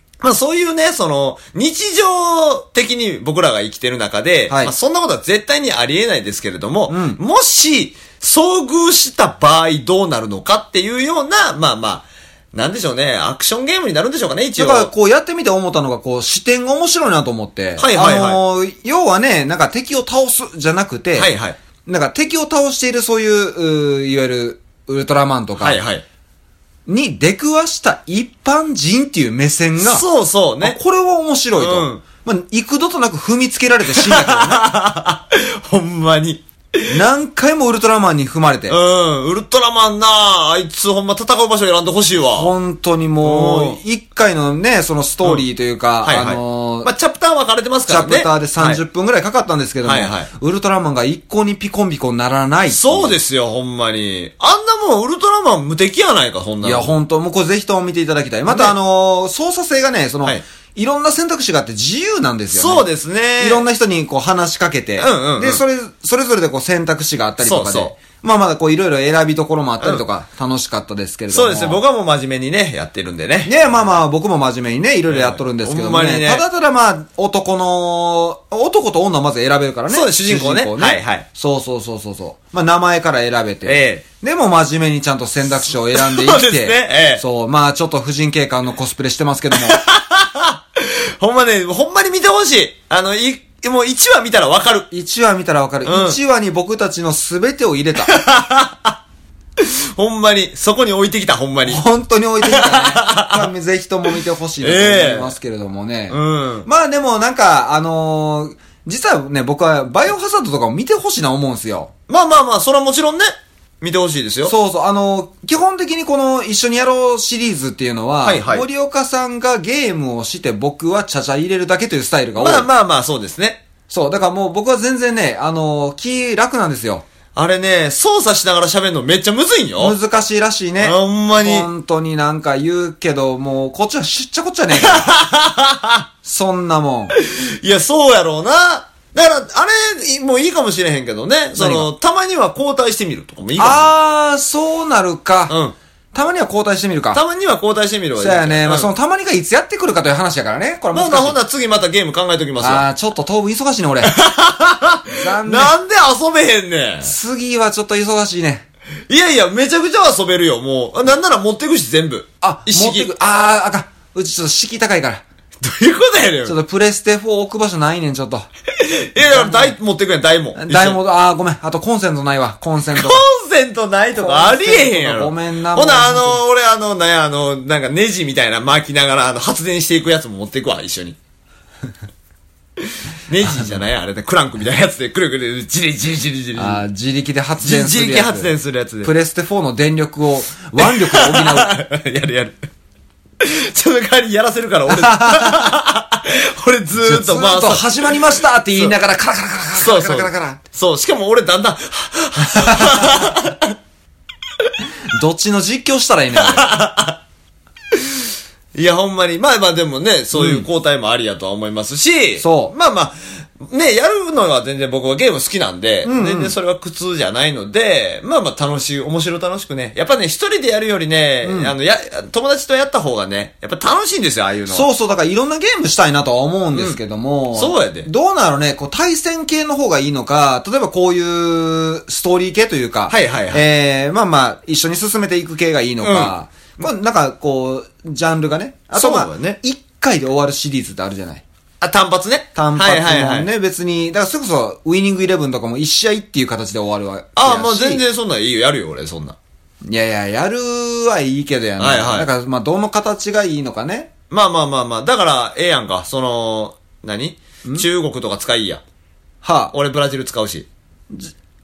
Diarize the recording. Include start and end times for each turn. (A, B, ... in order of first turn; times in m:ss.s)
0:00.2-0:14.9 A
0:06.9-0:07.2 B
0:14.6-0:21.3 B
0:17.8-0:18.4 A
0:21.2-0:21.6 A
0:21.9-0:25.8 B
0:25.6-0:26.0 A
0:26.9-0:30.0 B
0:29.8-0:30.8 A
0:30.6-0:34.6 B
0:31.6-0:32.0 A
0:33.9-0:36.9 A
0:36.9-0:38.8 B
0:38.7-0:42.5 A
0:42.4-0:46.9 B
0:43.2-0:43.8 A
0:46.0-0:48.8 A
0:47.9-0:53.2 B
0:49.8-0:50.3 A
0:52.7-0:57.0 A
0:56.6-1:02.9 B
0:58.5-0:58.8 A
1:02.5-1:03.7 A
1:03.4-1:11.8 B
1:05.0-1:05.6 A
1:07.4-1:08.0 A
1:09.8-1:10.0 A
1:11.3-1:14.0 A
1:13.4-1:29.8 B
1:15.1-1:16.4 A
1:19.9-1:21.3 A
1:23.6-1:24.0 A
1:25.5-1:27.2 A
1:29.5-1:34.9 A
1:34.9-1:38.2 B
1:35.8-1:36.2 A
1:38.1-1:39.0 A
1:39.6-1:41.8 A
1:41.6-1:51.9 B
1:42.4-1:43.5 A
1:44.1-1:45.4 A
1:46.1-1:46.7 A
1:52.1-1:54.5 A
1:54.4-2:02.7 B
1:58.2-1:58.7 A
2:02.4-2:03.6 A
2:03.9-2:07.0 B
2:07.4-2:10.0 A
2:09.8-2:15.1 B
2:10.8-2:11.7 A
2:14.7-2:16.0 A
2:16.2-2:17.1 B
2:17.1-2:23.9 A
2:21.6-2:21.9 B
2:23.6-2:25.6 B
2:25.5-2:25.8 A
2:26.1-2:27.2 B
2:27.1-2:28.9 A
2:28.2-2:31.4 B
2:30.9-2:32.9 A
2:32.6-2:34.1 B
2:34.0-2:37.1 A
2:35.2-2:35.8 B
2:37.0-2:38.6 B
2:39.1-2:43.1 A
2:42.4-2:45.2 B
2:45.6-2:46.6 A
2:46.4-2:48.5 B
2:48.7-2:51.0 A
2:49.2-2:49.8 B
2:50.6-2:53.2 B
2:52.9-3:01.2 A
2:54.1-2:56.4 B
3:03.3-3:06.8 A
3:06.6-3:08.5 B
3:07.6-3:09.1 A
3:09.0-3:11.7 B
3:10.8-3:12.7 A
3:13.4-3:19.0 A
3:14.9-3:15.6 B
3:17.0-3:20.6 B
3:19.8-3:23.8 A
3:22.5-3:23.1 B
3:25.1-3:26.7 B
3:26.4-3:27.2 A
3:28.8-3:44.9 A
3:30.3-3:30.7 B
3:32.4-3:32.7 B
3:36.0-3:36.6 B
3:41.4-3:41.7 B
3:44.7-4:01.4 B
3:46.7-3:47.0 A
3:47.5-3:48.1 A
3:53.1-3:53.6 A
3:56.0-3:56.3 A
3:58.9-3:59.6 A
4:01.8-4:03.5 A
4:02.6-4:08.0 B
4:07.4-4:09.4 A
4:09.8-4:14.1 B
4:11.8-4:12.3 A
4:14.3-4:18.8 A
4:19.4-4:19.7 B
4:19.7-4:20.7 A